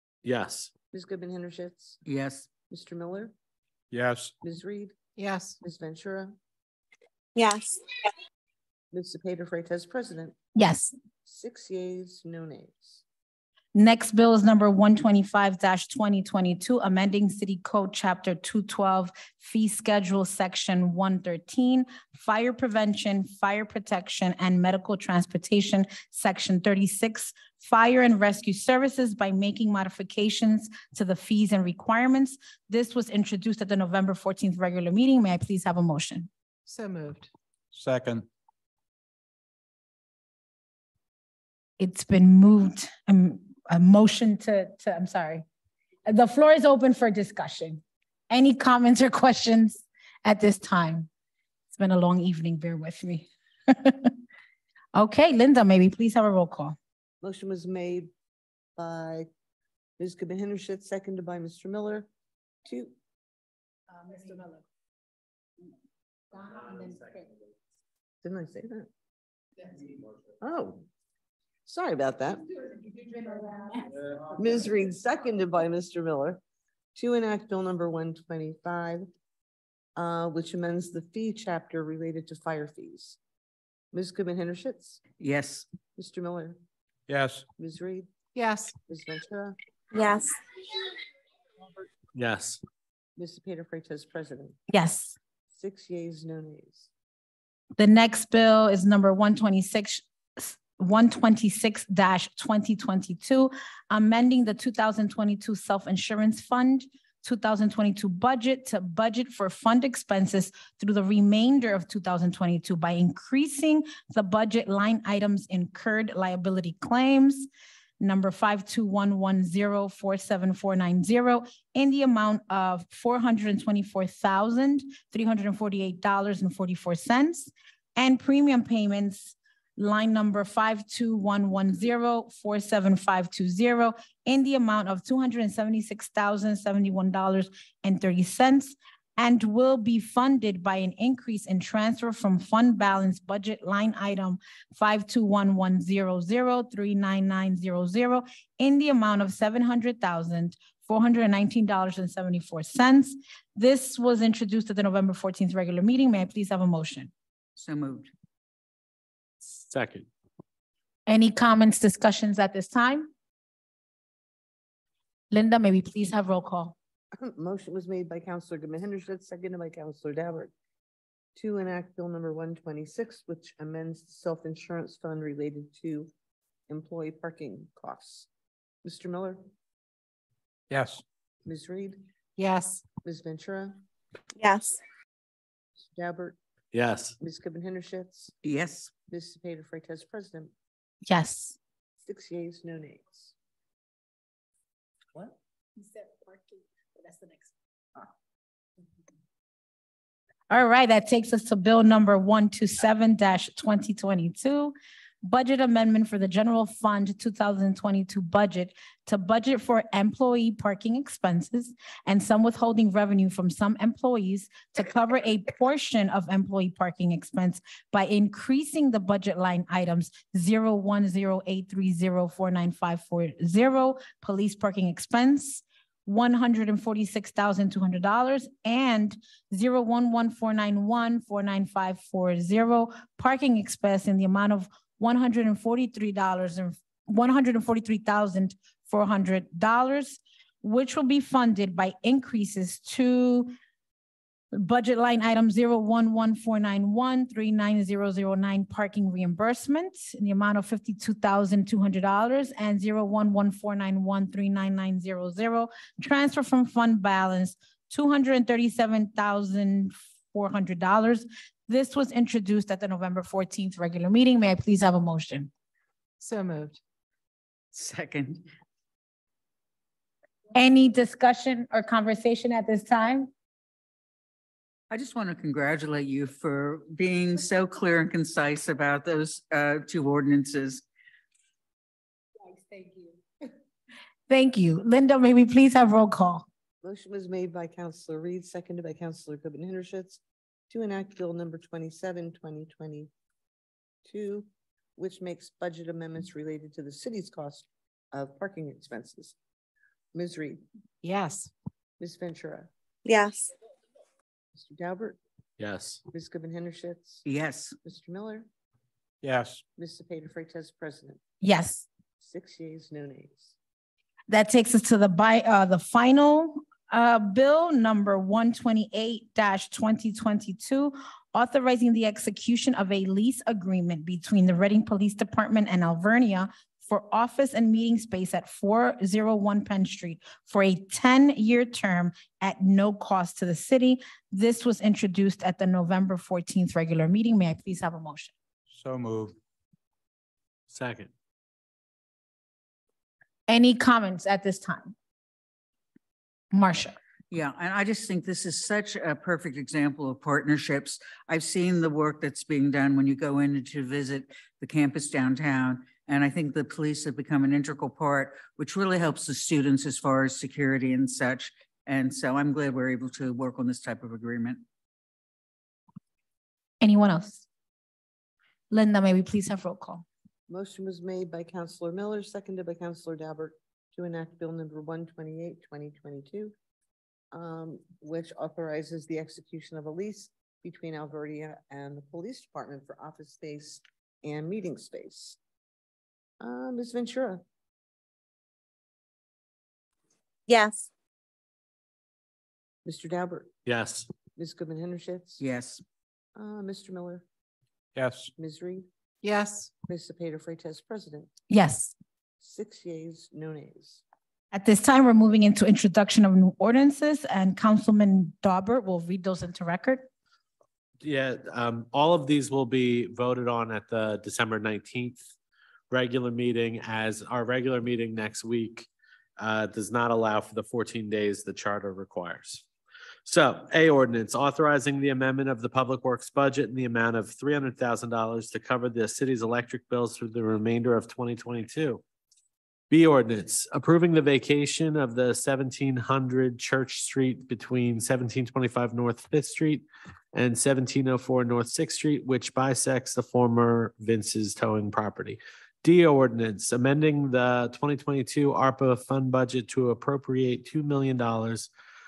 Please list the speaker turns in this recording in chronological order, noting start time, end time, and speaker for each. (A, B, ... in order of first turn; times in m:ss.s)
0:00.2-0:00.7 A
0:00.9-0:02.0 B
0:02.0-0:02.5 C
0:02.6-0:03.3 B
0:03.9-0:04.3 D
0:04.4-0:05.0 B
0:05.2-0:05.6 E
0:05.6-0:06.4 B
0:07.4-0:08.1 F
0:08.9-0:10.4 B
0:10.6-0:10.9 G
0:11.2-0:13.0 B
0:13.8-0:36.3 G
0:36.7-0:37.3 E
0:37.7-0:38.3 D
0:41.8-0:45.4 G
0:46.1-0:51.1 G
0:51.8-0:54.1 G
0:55.0-0:56.8 G
0:57.2-0:58.1 B
0:58.8-0:59.3 B
1:00.0-1:02.1 B
1:02.6-1:03.0 B
1:04.0-1:04.6 G
1:06.4-1:07.2 G
1:08.2-1:08.9 B
1:10.4-1:10.8 B
1:11.7-1:12.6 B
1:13.3-1:13.7 G
1:14.3-1:16.4 B
1:17.0-1:19.1 B
1:20.0-1:23.2 B
1:23.9-1:25.0 B
1:25.2-1:25.7 C
1:26.0-1:26.6 B
1:27.1-1:27.4 D
1:27.6-1:28.1 B
1:28.4-1:28.8 E
1:28.9-1:29.6 B
1:29.9-1:30.4 F
1:32.1-1:32.6 A
1:33.2-1:34.6 B
1:34.7-1:35.2 G
1:35.5-1:36.9 B
1:37.8-1:57.5 G
1:58.0-2:37.1 G
2:37.6-2:38.1 C
2:39.6-2:40.1 A
2:41.1-2:43.1 G
2:45.3-2:46.8 G
2:47.2-2:50.5 B
2:51.4-2:56.1 B
2:56.7-2:58.3 B
2:58.8-2:59.5 B
3:00.7-3:01.0 D
3:01.4-3:02.0 B
3:02.4-3:02.8 E
3:03.0-3:03.8 B
3:04.4-3:04.8 F
3:05.8-3:06.4 B
3:06.7-3:07.2 A
3:07.2-3:08.3 B
3:08.4-3:08.9 C
3:09.0-3:10.5 B
3:11.1-3:11.6 G
3:12.0-3:13.3 B
3:20.5-4:03.5 G
4:04.5-4:25.5 G
4:26.2-4:26.8 E
4:27.7-4:28.5 C
4:30.6-4:33.3 G
4:34.9-4:40.8 C
4:42.6-4:43.0 G
4:44.3-4:46.5 G
4:46.8-4:53.1 B
4:54.0-4:59.4 B
5:00.1-5:00.6 B
5:01.0-5:01.5 E
5:02.0-5:02.7 B
5:03.0-5:03.5 F
5:04.5-5:05.2 B
5:05.6-5:06.0 A
5:06.1-5:07.3 B
5:07.3-5:07.8 C
5:07.8-5:08.5 B
5:09.2-5:09.6 D
5:09.8-5:11.2 B
5:11.4-5:11.9 G
5:12.2-5:13.6 B
5:14.3-5:38.3 G
5:38.7-5:39.4 D
5:40.7-5:41.1 A
5:43.5-5:45.0 G
5:46.5-5:47.0 G
5:47.3-6:04.6 C
6:06.8-6:07.4 G
6:08.7-6:10.0 G
6:10.5-6:16.5 B
6:17.3-6:25.4 B
6:26.4-6:27.4 B
6:30.5-6:30.9 F
6:32.8-6:33.5 B
6:33.7-6:34.1 A
6:34.4-6:35.4 B
6:35.4-6:35.8 C
6:36.3-6:37.3 B
6:38.0-6:38.3 D
6:38.4-6:38.9 B
6:39.2-6:39.7 E
6:39.9-6:41.3 B
6:41.5-6:41.9 G
6:42.4-6:44.0 B
6:44.5-6:50.1 G
6:51.0-6:55.3 A
6:55.9-7:02.7 A
7:03.2-7:12.0 A
7:12.9-7:31.7 A